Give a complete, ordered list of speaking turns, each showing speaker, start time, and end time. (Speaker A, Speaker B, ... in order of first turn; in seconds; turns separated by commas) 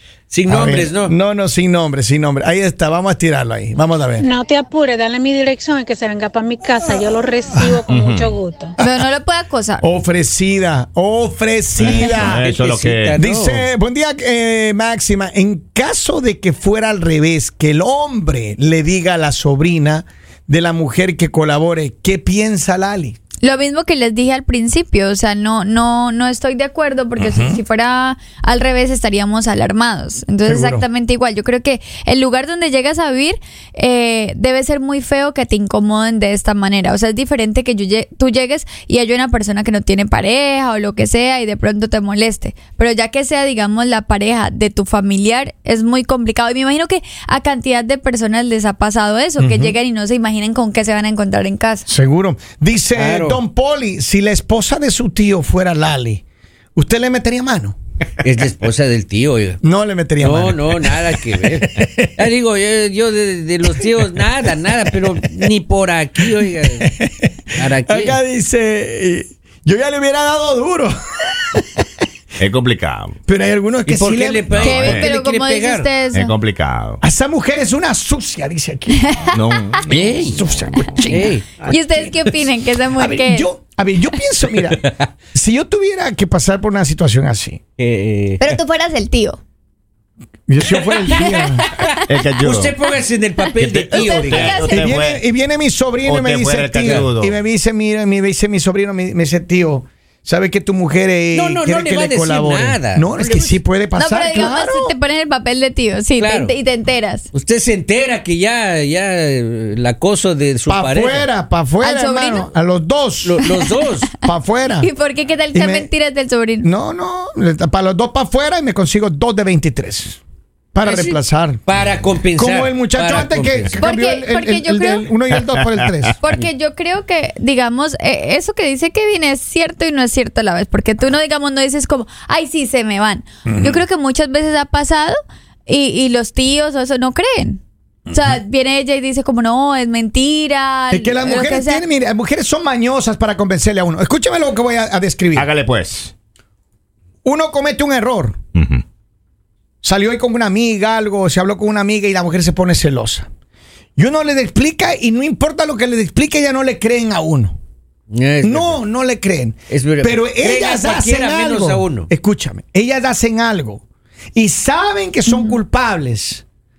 Speaker A: 0.3-1.1, Speaker B: 0.5-4.3, Speaker C: 4.2-8.7, Speaker B: 7.5-7.8, Speaker D: 7.9-8.3, Speaker B: 8.8-9.0, Speaker E: 8.8-9.8, Speaker B: 9.8-12.4, Speaker D: 11.8-13.1, Speaker A: 12.1-13.6, Speaker B: 13.1-23.1, Speaker E: 23.4-51.9, Speaker B: 27.2-27.6, Speaker B: 30.4-30.8, Speaker B: 49.4-49.8, Speaker B: 51.9-56.2, Speaker A: 52.9-53.4, Speaker B: 56.8-57.8, Speaker A: 58.2-59.6, Speaker B: 59.6-62.1, Speaker A: 60.2-66.9, Speaker B: 64.9-65.5, Speaker B: 66.8-71.7, Speaker A: 67.5-68.2, Speaker D: 72.4-73.2, Speaker B: 73.3-74.9, Speaker A: 73.8-75.9, Speaker D: 74.5-75.1, Speaker E: 74.6-76.3, Speaker D: 76.1-77.0, Speaker B: 77.0-79.2, Speaker E: 79.0-79.7, Speaker D: 79.3-81.2, Speaker B: 79.8-81.3, Speaker A: 79.9-80.4, Speaker A: 81.1-81.5, Speaker E: 81.7-83.5, Speaker B: 83.0-84.8, Speaker A: 84.5-85.1, Speaker B: 85.3-87.6, Speaker A: 87.8-88.4, Speaker E: 88.4-89.4, Speaker B: 90.5-91.6, Speaker A: 90.8-94.8, Speaker E: 91.6-92.0, Speaker D: 92.1-92.7, Speaker D: 93.5-95.2, Speaker E: 93.9-94.9, Speaker B: 94.7-104.9, Speaker D: 96.0-97.3, Speaker A: 96.8-97.1, Speaker A: 101.3-103.6, Speaker E: 104.0-107.3, Speaker A: 106.2-106.5, Speaker A: 107.3-111.3, Speaker B: 110.7-113.5, Speaker E: 111.8-112.5, Speaker A: 113.2-114.1, Speaker E: 113.5-113.7, Speaker B: 114.2-114.9, Speaker E: 114.8-116.7, Speaker B: 115.5-115.9, Speaker B: 116.6-120.2, Speaker B: 120.7-121.7, Speaker A: 120.8-123.7, Speaker B: 122.3-126.2, Speaker E: 123.8-125.1, Speaker E: 126.2-141.8, Speaker B: 133.4-133.8, Speaker B: 140.9-145.5, Speaker D: 145.3-146.1, Speaker B: 147.2-148.4, Speaker D: 148.5-148.8, Speaker B: 149.8-153.3, Speaker B: 154.0-157.5, Speaker A: 158.1-158.8, Speaker B: 158.4-163.8, Speaker A: 159.7-162.1, Speaker B: 164.3-166.4, Speaker E: 165.2-165.6